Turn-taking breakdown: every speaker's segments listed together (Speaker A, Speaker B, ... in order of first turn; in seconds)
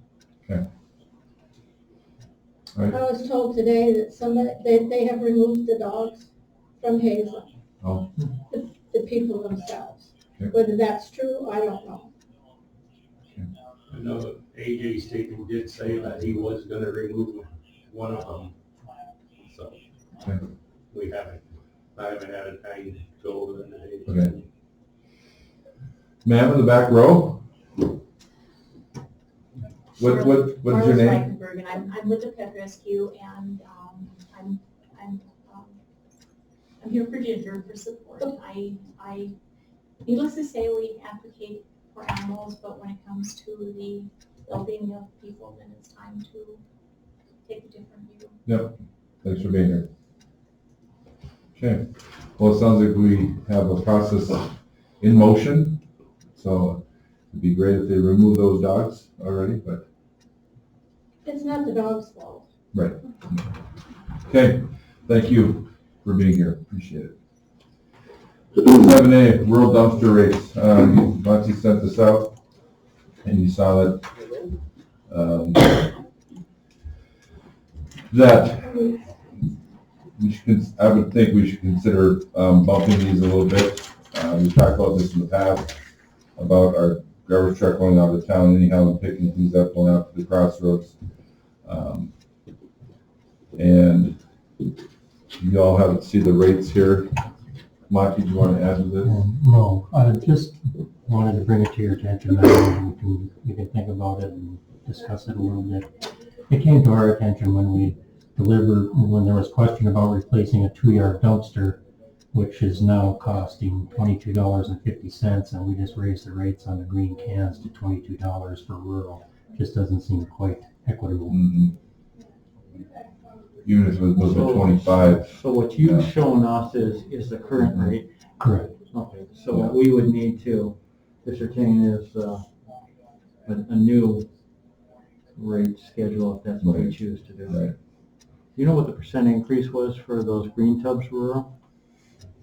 Speaker A: 2.9-6.3, 6.8-7.5, 8.5-12.1, 61.2-62.5, 78.6-79.0, 122.1-123.3
Speaker B: 7.8-8.1, 26.2-27.4, 30.0-31.2, 48.5-49.9, 51.5-55.8, 56.4-59.8, 62.7-63.0, 64.3-67.1, 68.6-72.3, 73.2-74.0, 75.1-75.9, 78.1-78.8, 80.2-85.8, 86.3-91.0, 91.6-92.1, 93.5-94.2, 95.4-97.2, 97.9-99.1, 121.3-121.7, 123.6-126.1, 129.5-129.8, 136.6-137.7
Speaker C: 13.9-18.5, 19.4-19.8, 20.9-21.4, 21.9-24.4
Speaker D: 29.9-35.8, 36.8-39.3, 40.0-46.6, 47.5-48.3
Speaker E: 99.0-105.9, 106.5-111.8, 112.3-121.4, 127.8-128.7
Speaker F: 124.2-132.4, 133.4-134.3, 135.3-137.6, 138.6-141.5